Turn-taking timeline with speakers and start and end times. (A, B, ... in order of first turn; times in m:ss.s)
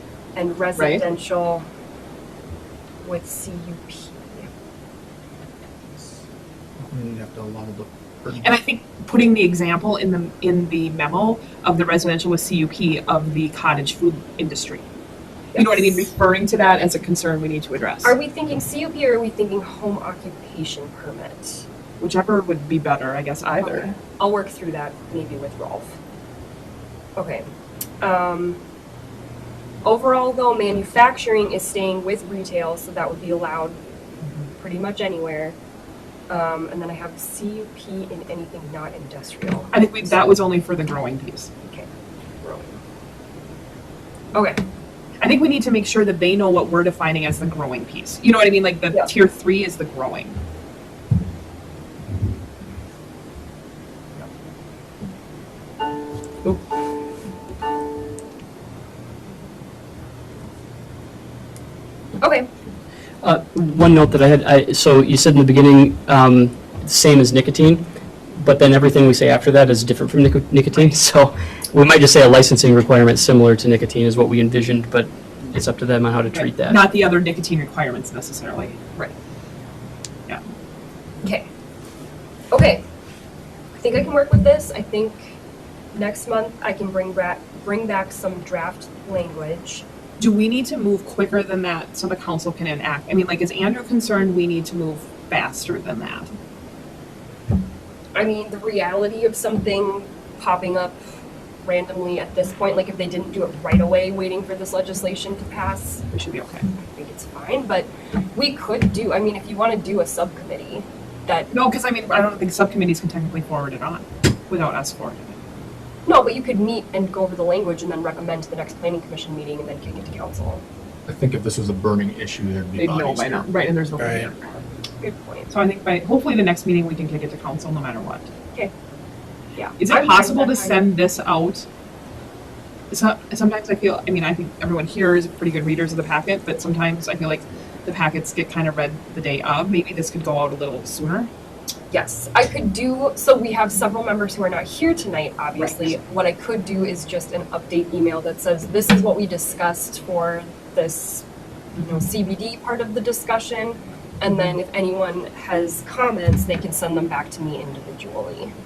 0:00.4-0:01.6 A
0:00.8-0:01.0 B
0:03.0-0:04.5 A
0:06.8-0:08.5 C
0:08.4-0:14.9 B
0:15.5-0:16.0 A
0:15.6-0:18.2 B
0:18.0-0:21.7 A
0:22.0-0:24.0 B
0:23.6-0:26.0 A
0:27.2-0:27.5 A
0:28.0-0:28.6 A
0:29.8-0:33.8 A
0:34.6-0:35.6 A
0:36.3-0:39.7 A
0:39.7-0:41.5 B
0:41.6-0:41.9 A
0:42.4-0:42.8 A
0:44.3-0:44.6 A
0:45.2-0:50.4 B
1:02.2-1:02.5 A
1:03.2-1:16.8 D
1:16.3-1:19.1 B
1:21.2-1:21.5 A
1:22.5-1:22.9 A
1:23.8-1:25.4 A
1:25.9-1:29.9 A
1:30.2-1:36.3 B
1:38.2-1:41.0 A
1:41.6-1:46.1 A
1:46.1-1:46.7 B
1:46.8-1:51.5 A
1:51.5-1:55.4 B
1:56.1-2:00.6 A
2:01.1-2:04.3 C
2:02.8-2:04.6 B
2:05.0-2:05.5 A
2:05.5-2:08.3 B
2:09.6-2:10.9 A
2:09.8-2:11.7 B
2:12.9-2:21.3 B
2:21.9-2:31.2 A
2:25.6-2:26.0 B
2:31.8-2:38.5 A